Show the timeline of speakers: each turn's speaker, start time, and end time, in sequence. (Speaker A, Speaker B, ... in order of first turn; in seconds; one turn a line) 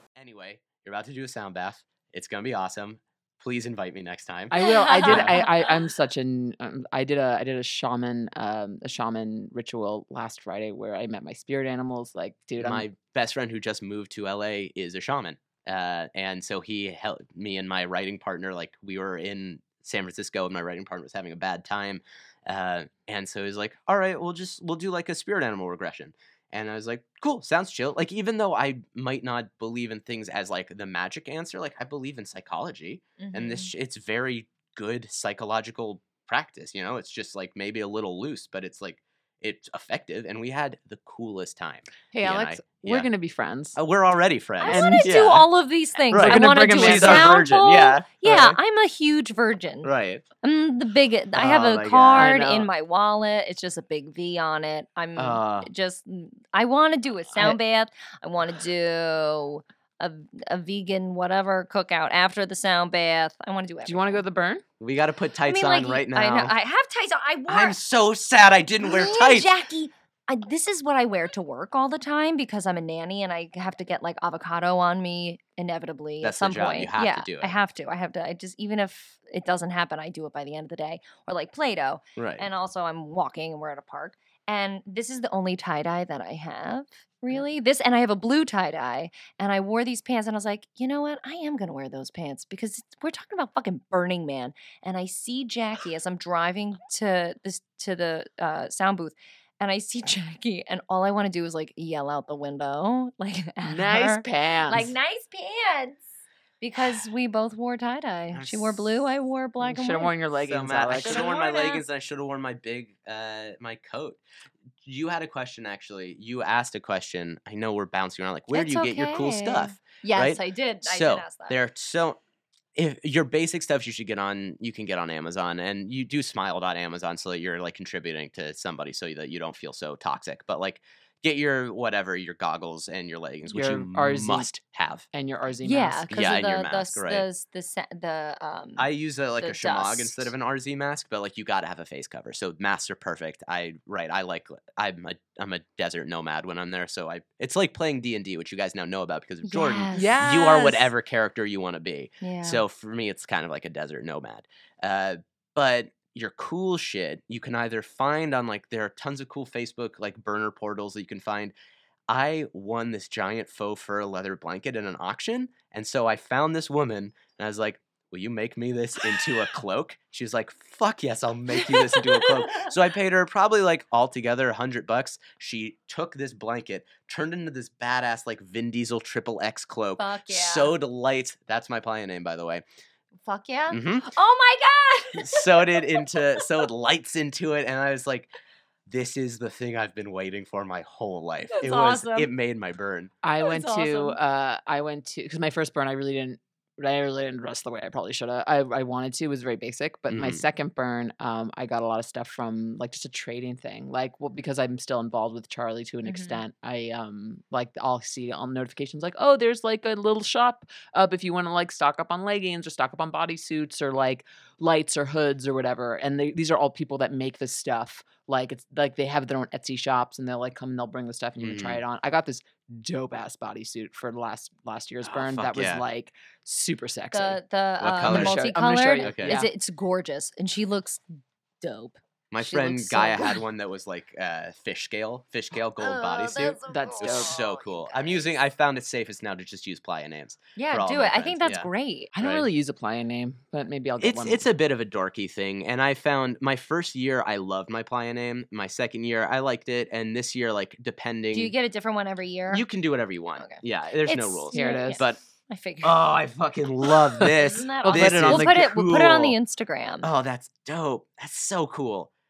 Speaker A: 0.2-5.4
Speaker B: 4.5-12.8
Speaker C: 4.5-5.6
Speaker A: 12.6-43.1
Speaker C: 33.2-33.7
Speaker B: 42.1-43.8
Speaker A: 43.8-45.5
Speaker C: 44.6-49.9
Speaker B: 44.6-45.2
Speaker A: 46.1-48.6
Speaker B: 46.1-47.4
Speaker A: 49.8-50.2
Speaker C: 50.4-64.2
Speaker A: 51.3-52.6
Speaker B: 52.1-52.6
Speaker A: 55.1-55.7
Speaker B: 63.8-64.6
Speaker A: 64.8-66.5
Speaker C: 65.5-67.8
Speaker A: 67.5-69.5
Speaker C: 68.8-106.0
Speaker A: 76.2-77.5
Speaker A: 82.2-82.5
Speaker B: 103.6-104.9
Speaker C: 106.6-110.1
Speaker A: 108.3-108.9
Speaker B: 109.6-111.3
Speaker A: 110.4-114.2
Speaker C: 111.0-111.8
Speaker A: 114.8-122.2
Speaker C: 118.5-121.5
Speaker A: 122.8-135.1
Speaker B: 133.5-134.5
Speaker B: 135.1-136.1
Speaker C: 135.6-138.9
Speaker A: 136.1-137.2
Speaker A: 138.8-161.5
Speaker C: 139.4-140.3
Speaker C: 149.4-150.1
Speaker B: 149.9-150.9
Speaker C: 152.2-152.6
Speaker A: 162.1-182.6
Speaker C: 171.5-172.7
Speaker C: 180.0-180.7
Speaker C: 183.2-186.4
Speaker A: 183.7-184.1
Speaker A: 185.1-188.3
Speaker A: 188.9-193.1
Speaker C: 191.5-192.3
Speaker B: 193.2-227.4
Speaker C: 193.4-194.2
Speaker A: 200.1-200.4
Speaker C: 206.0-206.4
Speaker A: 221.4-221.8
Speaker A: 225.1-225.8
Speaker C: 227.1-231.0
Speaker A: 227.8-228.4
Speaker B: 228.0-229.5
Speaker A: 229.0-229.4
Speaker C: 231.6-233.4
Speaker A: 232.3-241.7
Speaker C: 235.8-238.4
Speaker B: 236.7-237.4
Speaker C: 240.6-242.1
Speaker B: 242.1-244.4
Speaker A: 242.2-242.5
Speaker A: 244.0-251.5
Speaker C: 251.3-252.6
Speaker A: 252.5-255.2
Speaker C: 253.4-256.0
Speaker B: 254.5-255.0
Speaker A: 255.8-259.4
Speaker C: 257.2-260.1
Speaker B: 257.8-258.6
Speaker A: 260.0-262.1